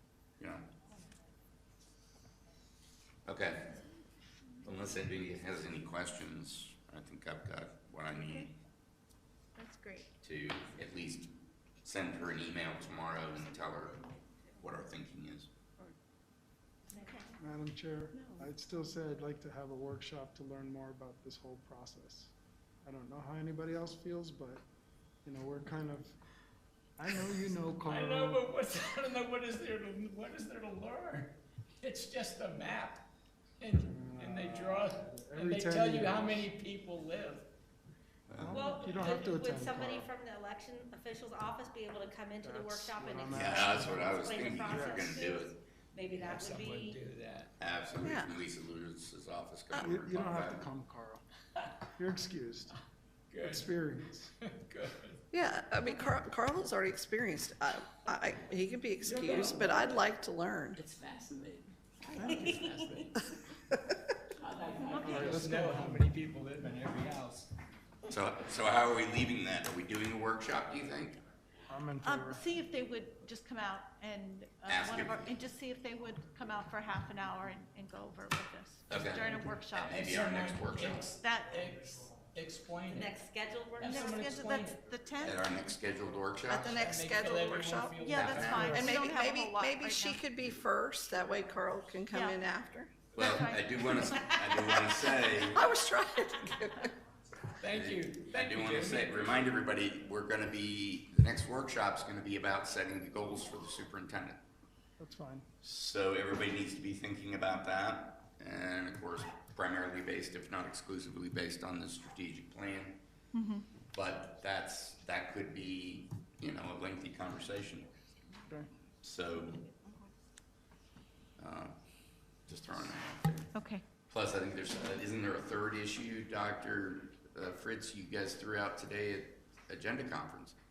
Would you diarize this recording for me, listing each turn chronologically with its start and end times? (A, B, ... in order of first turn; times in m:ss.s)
0:00.4-0:00.7 A
0:03.2-0:03.7 A
0:04.6-0:08.6 A
0:09.6-0:10.1 B
0:10.2-0:15.5 A
0:16.9-0:17.2 B
0:17.4-0:22.3 C
0:22.8-0:24.6 C
0:25.2-0:26.2 C
0:27.0-0:28.5 C
0:27.2-0:33.1 D
0:33.6-0:37.5 D
0:33.8-0:36.5 C
0:38.3-0:38.6 A
0:38.4-0:40.1 C
0:38.5-0:47.0 E
0:42.4-0:45.2 C
0:43.3-0:45.6 A
0:46.1-0:47.5 D
0:47.6-0:50.6 A
0:48.0-0:48.3 F
0:49.8-0:51.2 C
0:52.0-0:52.8 C
0:53.3-0:53.8 D
0:53.4-0:54.3 C
0:54.4-0:55.2 D
0:55.3-1:00.8 F
0:59.0-1:00.0 D
1:00.8-1:03.4 D
1:02.2-1:02.6 C
1:04.3-1:07.5 D
1:04.9-1:05.2 B
1:05.0-1:06.1 C
1:08.1-1:11.2 A
1:11.7-1:12.4 C
1:12.0-1:20.0 B
1:14.7-1:15.4 A
1:18.9-1:21.1 A
1:19.3-1:19.6 C
1:19.9-1:23.2 D
1:21.1-1:21.7 B
1:22.9-1:24.0 E
1:23.8-1:24.8 D
1:23.9-1:25.8 B
1:25.2-1:27.0 A
1:26.5-1:28.0 F
1:26.7-1:28.9 D
1:27.9-1:30.2 B
1:28.1-1:28.8 A
1:28.4-1:28.9 C
1:28.7-1:32.9 F
1:32.1-1:32.4 B
1:33.2-1:35.6 A
1:33.2-1:34.4 B
1:34.5-1:35.0 E
1:35.5-1:36.9 F
1:37.6-1:39.5 D
1:37.7-1:44.4 A
1:45.0-1:45.5 C
1:45.6-1:53.0 A
1:53.3-1:53.7 B
1:53.9-1:57.9 A
1:59.0-1:59.7 A
2:01.4-2:01.8 A
2:02.5-2:03.5 A
2:03.5-2:03.8 B
2:04.1-2:10.6 A